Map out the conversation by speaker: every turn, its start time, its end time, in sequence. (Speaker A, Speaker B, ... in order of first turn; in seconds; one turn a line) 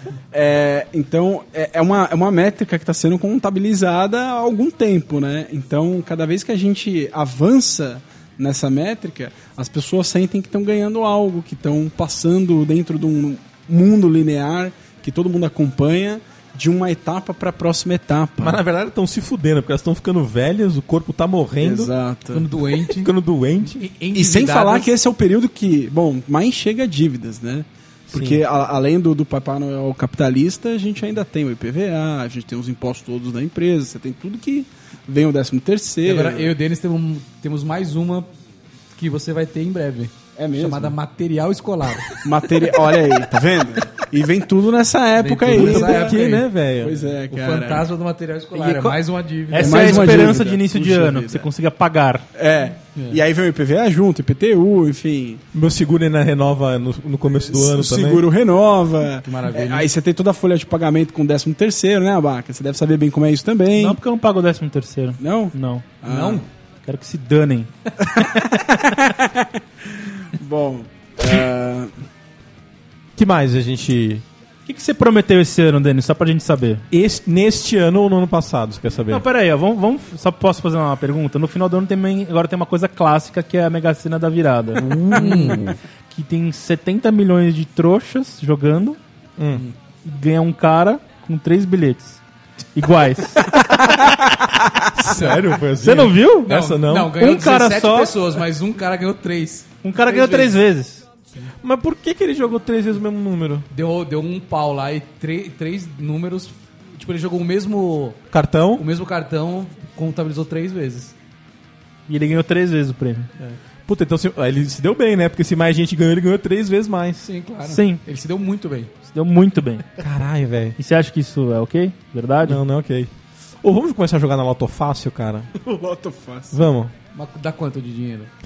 Speaker A: 0.3-18.6
Speaker B: 18.4-21.9
Speaker A: 21.6-22.4
Speaker C: 22.3-23.1
Speaker B: 22.8-23.8
Speaker C: 23.7-24.9
Speaker A: 24.1-36.5
Speaker B: 28.1-28.4
Speaker C: 36.0-38.3
Speaker C: 39.0-42.1
Speaker A: 40.4-40.9
Speaker A: 42.2-47.9
Speaker C: 45.2-46.5
Speaker B: 45.5-47.1
Speaker C: 47.3-50.4
Speaker D: 48.5-49.0
Speaker D: 49.5-52.2
Speaker A: 49.6-51.5
Speaker A: 52.3-55.4
Speaker C: 52.9-53.2
Speaker B: 55.5-58.3
Speaker A: 57.5-64.0
Speaker C: 59.2-59.9
Speaker D: 63.7-65.8
Speaker A: 65.2-66.4
Speaker C: 66.0-66.4
Speaker D: 66.8-67.7
Speaker A: 68.2-71.9
Speaker B: 73.2-74.2
Speaker D: 74.7-76.8
Speaker B: 76.9-79.2
Speaker D: 79.1-85.5
Speaker B: 84.8-85.5
Speaker C: 85.1-85.8
Speaker D: 86.1-89.0
Speaker B: 89.4-89.6
Speaker D: 90.0-92.2
Speaker D: 92.7-93.7
Speaker B: 94.7-97.2
Speaker C: 95.0-95.4
Speaker D: 95.8-98.4
Speaker C: 96.4-100.6
Speaker D: 99.8-101.0
Speaker B: 101.6-103.7
Speaker C: 103.7-108.2
Speaker B: 108.3-108.8
Speaker C: 108.8-111.1
Speaker D: 112.1-113.3
Speaker B: 113.9-117.2
Speaker C: 117.2-118.9
Speaker D: 117.7-118.0
Speaker D: 119.1-119.9
Speaker B: 120.0-120.8
Speaker D: 120.8-122.6
Speaker B: 122.4-123.1
Speaker B: 123.6-125.5
Speaker A: 125.5-126.6
Speaker B: 126.5-126.9
Speaker C: 127.1-128.3